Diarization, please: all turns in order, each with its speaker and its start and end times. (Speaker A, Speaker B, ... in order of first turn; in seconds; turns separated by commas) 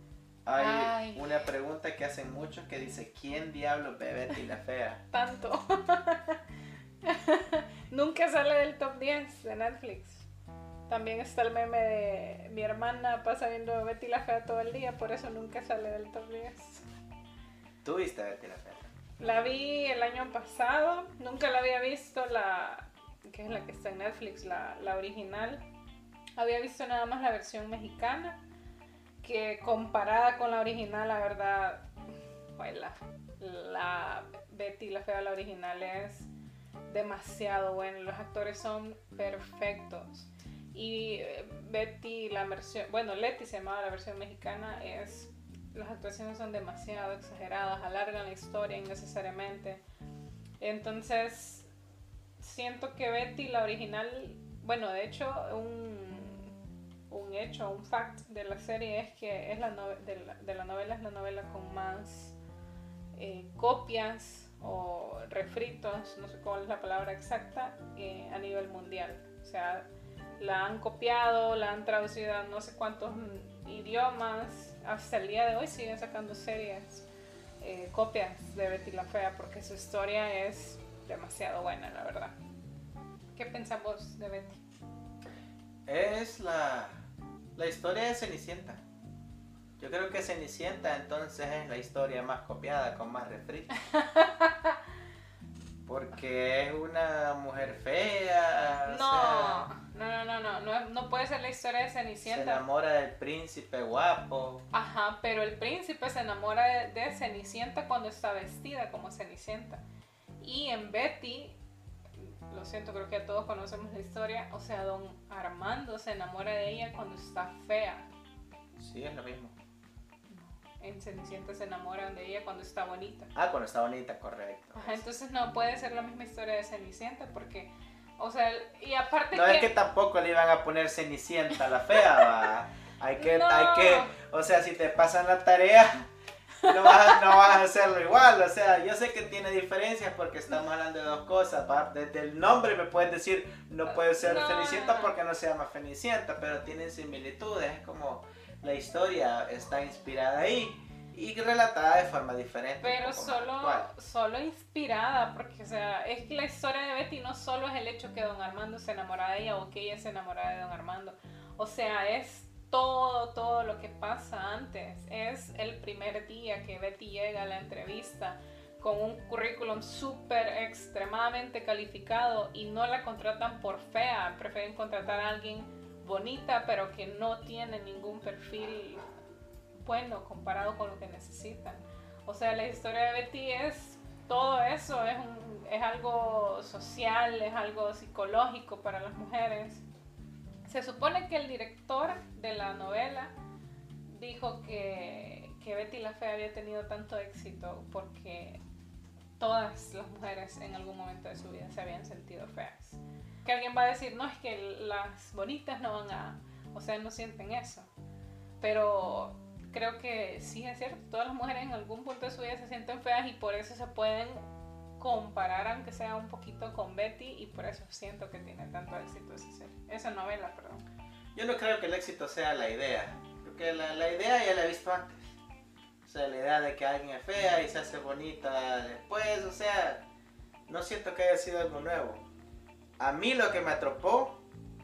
Speaker A: 0.5-5.0, Speaker B: 0.6-1.5, Speaker B: 5.1-6.4, Speaker B: 7.0-10.3, Speaker B: 10.9-16.9, Speaker A: 17.8-18.9, Speaker B: 19.2-25.6, Speaker B: 26.4-28.4, Speaker B: 29.2-31.9, Speaker B: 32.6-36.3, Speaker B: 36.9-49.8, Speaker B: 50.6-51.7, Speaker B: 52.4-56.5, Speaker B: 57.1-62.4, Speaker B: 63.2-69.9, Speaker B: 70.4-77.1, Speaker B: 77.6-82.3, Speaker B: 83.3-84.6, Speaker A: 85.9-87.0, Speaker A: 87.5-88.8, Speaker A: 89.8-93.7, Speaker B: 93.9-94.8, Speaker A: 95.8-99.7, Speaker B: 98.9-102.6, Speaker A: 102.2-104.7, Speaker B: 104.7-109.8, Speaker B: 110.4-111.6, Speaker B: 112.2-118.1, Speaker A: 118.8-119.5, Speaker B: 120.3-123.3, Speaker A: 123.3-125.1, Speaker B: 124.8-129.7, Speaker A: 129.3-136.1, Speaker B: 132.0-132.3, Speaker B: 133.2-134.1, Speaker B: 136.6-137.4, Speaker A: 136.6-153.9, Speaker B: 143.9-145.1, Speaker B: 152.8-179.0, Speaker B: 179.7-189.8, Speaker B: 190.7-193.3, Speaker B: 194.1-198.6, Speaker B: 199.4-207.9, Speaker B: 208.6-214.4, Speaker B: 215.0-220.8, Speaker A: 221.3-225.3, Speaker A: 226.0-230.0, Speaker A: 230.7-232.2, Speaker A: 233.0-234.4